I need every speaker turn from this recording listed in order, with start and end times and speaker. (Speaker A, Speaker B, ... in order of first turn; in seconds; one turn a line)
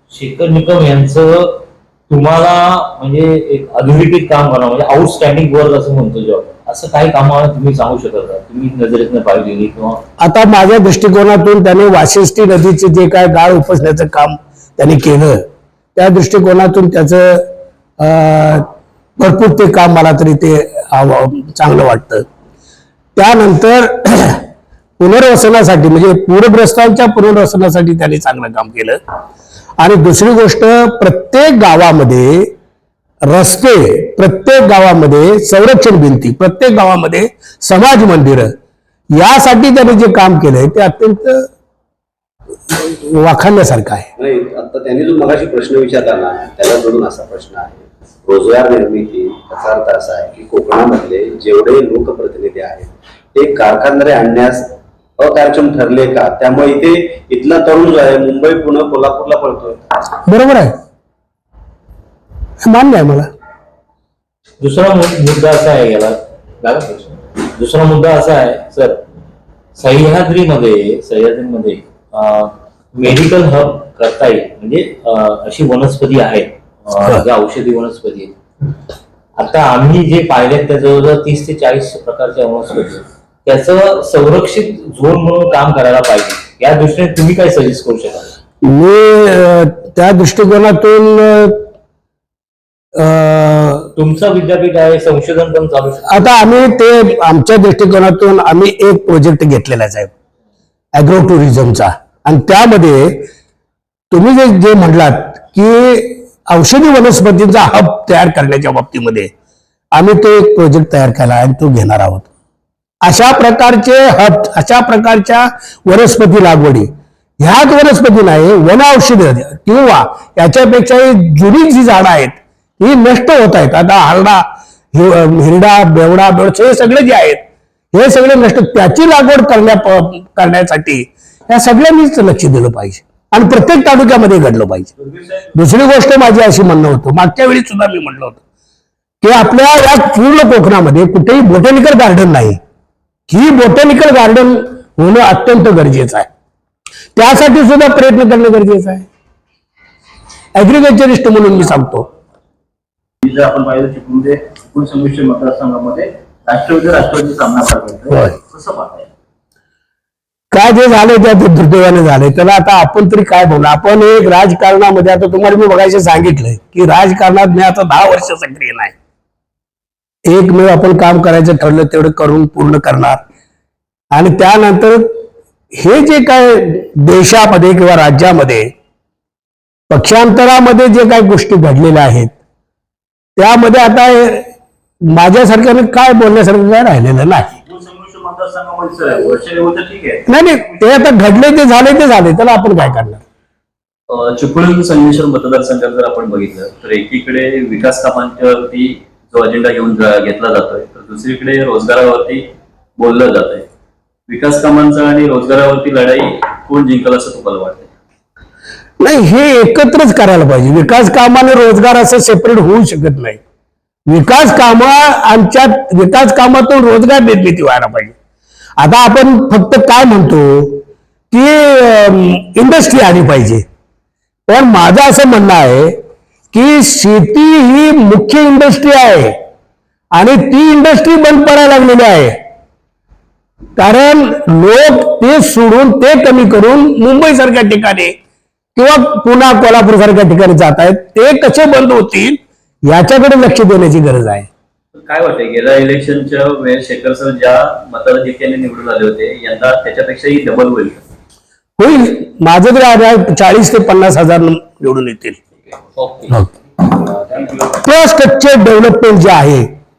Speaker A: 0.1-10.0
Speaker B: 10.2-17.5
Speaker B: 18.0-18.7
Speaker B: 19.2-22.2
Speaker B: 23.1-24.4
Speaker B: 25.0-29.0
Speaker B: 29.8-32.5
Speaker B: 33.3-38.5
Speaker B: 39.1-41.5
Speaker B: 42.7-44.1
Speaker C: 44.2-54.6
Speaker C: 55.2-59.8
Speaker B: 60.2-60.7
Speaker B: 62.6-63.3
Speaker A: 64.6-69.0
Speaker A: 69.7-78.3
Speaker A: 79.4-88.3
Speaker B: 88.6-91.6
Speaker B: 93.0-93.9
Speaker A: 94.0-96.4
Speaker B: 96.1-100.1
Speaker B: 100.9-103.3
Speaker B: 104.1-109.3
Speaker B: 109.9-112.3
Speaker B: 113.0-127.4
Speaker B: 127.9-134.9
Speaker A: 135.1-135.4
Speaker B: 135.5-138.4
Speaker B: 139.2-142.6
Speaker B: 143.3-146.3
Speaker B: 147.2-149.1
Speaker B: 150.5-152.1
Speaker D: 153.2-159.1
Speaker B: 158.1-158.3
Speaker B: 160.5-168.9
Speaker B: 170.3-173.2
Speaker B: 174.1-175.0
Speaker B: 175.7-178.7
Speaker B: 179.9-182.3
Speaker B: 183.4-184.5
Speaker B: 185.1-187.5
Speaker D: 187.6-191.0
Speaker B: 190.3-193.2
Speaker E: 194.1-202.4
Speaker E: 203.0-203.7
Speaker E: 204.3-207.9
Speaker B: 209.0-213.4
Speaker B: 214.1-218.1
Speaker B: 218.8-223.6
Speaker B: 224.5-225.9
Speaker B: 226.5-229.3
Speaker B: 230.1-232.3
Speaker B: 233.8-238.1
Speaker B: 238.8-244.5
Speaker E: 244.9-251.0
Speaker B: 251.8-255.4
Speaker A: 255.9-256.4
Speaker B: 257.8-259.7